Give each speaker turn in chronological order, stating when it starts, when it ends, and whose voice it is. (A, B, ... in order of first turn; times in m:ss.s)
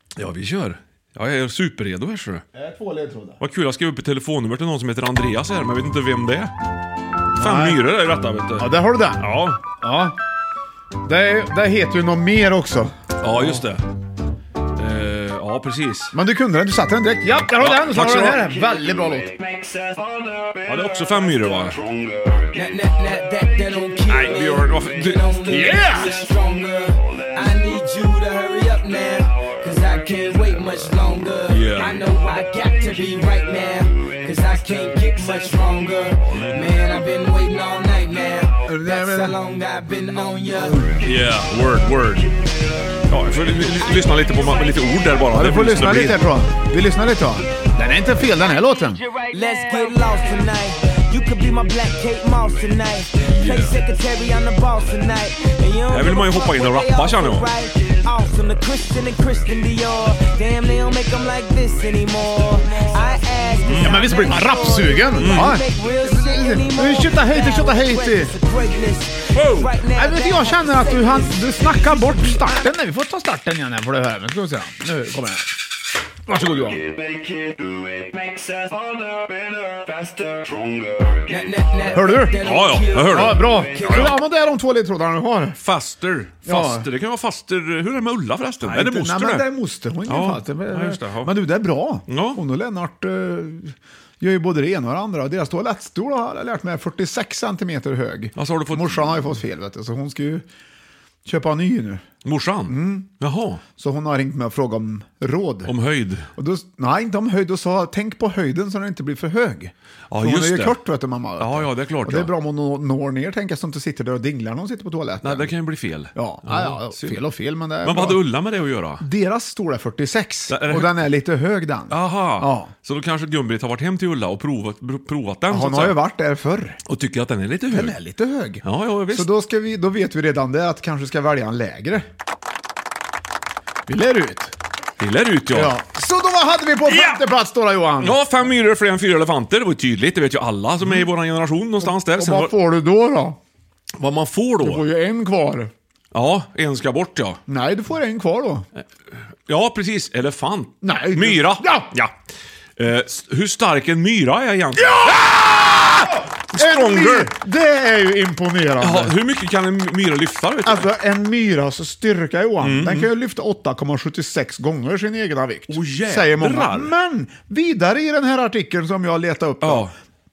0:00.2-0:02.4 A
0:02.5-0:03.4 B
0:03.4-0:06.5 A
0:07.4-0:07.8 B
0:07.4-0:09.6 A
0:08.6-0:10.2 B
0:11.0-0:13.6 B
0:13.2-0:13.8 A
0:14.8-0:16.1 A
0:16.1-0:19.4 B
0:17.5-0:18.5 A
0:20.6-0:21.8 A
0:22.5-0:40.9 C
0:24.1-0:25.8 A
0:25.5-0:26.2 B
0:31.5-0:32.0 A
0:36.3-0:36.6 A
0:38.7-0:39.4 B
0:40.3-0:40.9 B
0:41.0-0:42.3 A
0:43.1-0:46.2 A
0:43.8-0:45.1 C
0:45.3-0:49.0 B
0:49.2-1:12.1 C
0:53.3-0:53.8 A
0:55.9-0:57.5 A
1:03.7-1:04.1 A
1:03.8-1:08.3 B
1:05.2-1:05.6 A
1:09.4-1:09.7 A
1:10.0-1:15.5 B
1:16.3-1:16.9 B
1:21.2-1:24.0 C
1:21.9-1:22.4 B
1:22.4-1:24.2 A
1:23.1-1:25.6 B
1:25.6-1:29.4 A
1:26.5-1:26.9 B
1:28.6-1:40.4 B
1:30.1-1:31.3 A
1:32.1-1:32.4 A
1:38.4-1:39.3 A
1:41.2-1:42.1 B
1:42.2-1:43.6 A
1:42.7-1:43.1 B
1:43.8-1:45.7 B
1:45.7-1:46.3 A
1:46.4-1:55.5 B
1:50.1-1:50.8 A
1:51.4-1:52.3 A
1:55.2-1:57.2 A
1:56.1-1:58.2 B
1:57.8-1:59.0 A
1:59.0-2:02.7 B
2:00.5-2:01.0 A
2:01.9-2:06.0 A
2:05.5-2:06.8 B
2:06.9-2:08.0 A
2:07.7-2:12.1 B
2:08.6-2:09.3 A
2:13.9-2:14.6 B
2:15.0-2:15.8 A
2:15.5-2:18.2 B
2:16.9-2:17.2 A
2:18.0-2:22.5 A
2:21.8-2:23.4 B
2:24.0-2:24.8 A
2:24.6-2:25.7 B
2:26.1-2:27.4 A
2:27.5-2:28.7 B
2:29.5-2:32.1 A
2:30.8-2:31.9 B
2:32.8-2:37.3 A
2:34.8-2:39.2 B
2:38.8-2:40.9 A
2:40.6-2:49.9 B
2:42.6-2:43.1 A
2:45.7-2:46.9 A
2:49.6-2:49.9 A